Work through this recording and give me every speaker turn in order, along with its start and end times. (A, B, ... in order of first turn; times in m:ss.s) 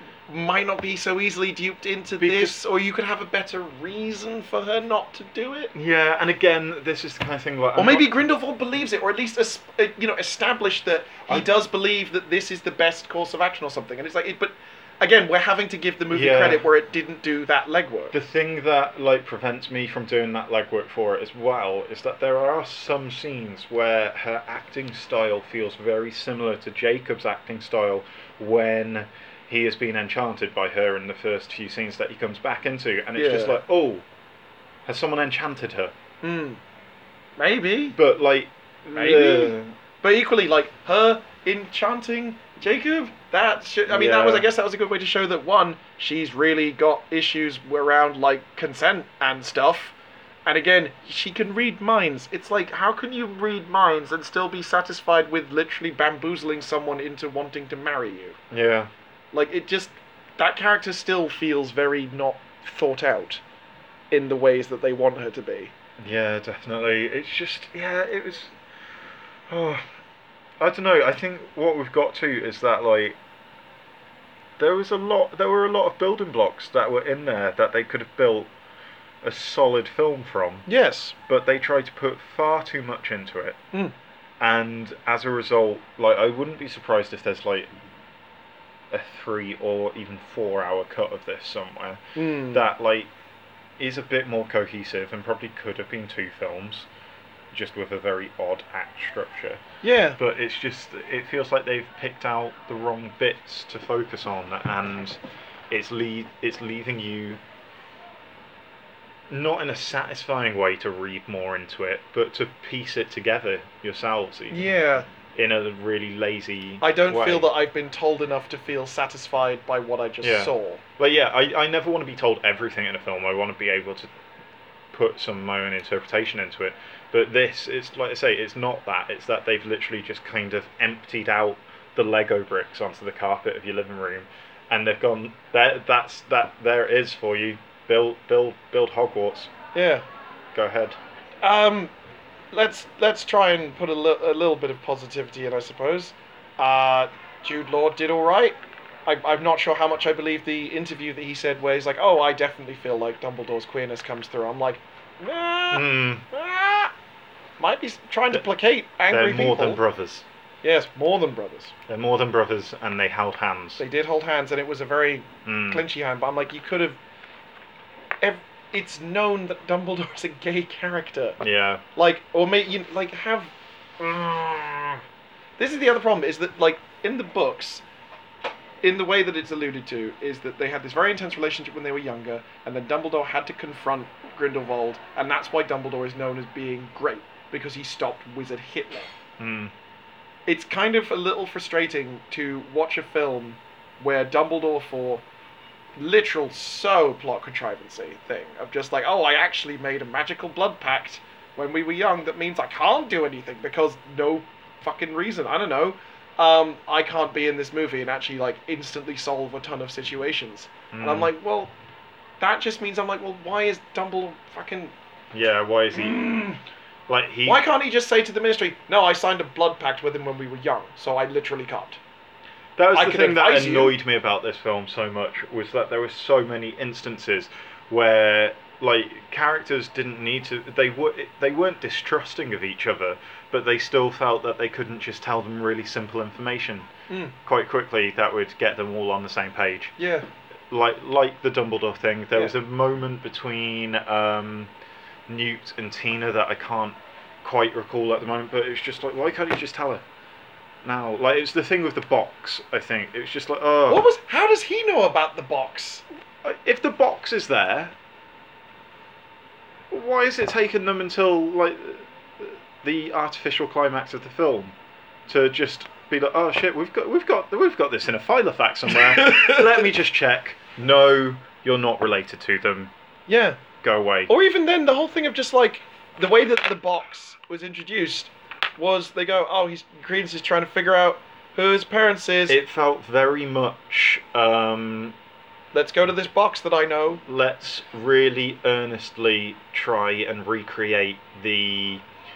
0:00.3-0:05.7 A
0:02.2-0:02.5 B
0:05.7-0:08.1 B
0:07.8-0:18.1 A
0:16.1-0:16.6 B
0:18.1-0:34.0 B
0:33.1-0:33.6 A
0:34.8-0:35.9 B
0:36.2-0:36.6 A
0:37.4-0:38.0 A
0:37.9-0:39.7 B
0:38.9-0:49.9 A
0:43.9-0:44.5 B
0:50.4-0:58.4 A
0:58.5-0:58.9 B
0:59.3-1:03.4 A
1:04.1-1:05.7 A
1:06.0-1:08.5 B
1:09.5-1:09.8 B
1:10.6-1:13.2 B
1:14.6-1:18.5 B
1:19.2-1:20.6 B
1:20.6-1:21.1 A
1:21.2-1:23.6 B
1:24.4-1:27.7 B
1:28.9-1:33.1 B
1:32.1-1:32.6 A
1:33.8-1:36.9 B
1:37.5-1:39.6 B
1:39.8-1:40.2 A
1:40.2-1:45.2 B
1:45.7-1:47.4 B
1:49.3-1:54.7 B
1:54.5-1:55.1 A
1:55.3-1:57.5 B
1:56.8-2:00.8 A
2:00.2-2:04.1 B
2:04.9-2:19.5 B
2:19.7-2:20.0 A
2:20.5-2:21.0 B
2:21.4-2:21.9 A
2:22.5-2:36.9 A
2:35.7-2:36.2 B
2:37.6-2:39.8 A
2:39.1-2:40.2 B
2:40.6-2:41.7 A
2:41.9-2:43.8 B
2:43.8-2:47.0 A
2:45.4-2:45.8 B
2:48.2-2:51.4 A
2:51.4-2:51.8 B
2:51.9-2:55.0 A
2:55.6-2:57.8 A
2:58.8-3:09.1 A
3:09.4-3:09.7 B
3:10.4-3:15.2 A
3:16.0-3:31.7 A
3:30.9-3:31.3 B
3:32.4-3:34.9 A
3:35.3-3:36.3 B
3:35.9-3:36.6 A
3:37.1-3:37.6 B
3:37.4-3:42.0 A
3:42.8-3:56.9 B
3:42.9-3:44.0 A
3:57.1-3:57.3 A
3:57.4-3:59.9 B
4:00.0-4:00.2 A
4:00.7-4:04.7 B
4:05.3-4:10.0 B
4:10.8-4:14.0 B
4:13.9-4:16.0 A
4:16.4-4:17.9 B
4:19.9-4:24.7 B
4:25.3-4:32.9 B
4:29.0-4:29.8 A
4:33.3-4:33.6 A
4:33.8-4:34.3 B
4:34.3-4:42.6 A
4:42.5-4:45.2 B
4:45.7-4:47.2 A
4:47.3-4:52.0 B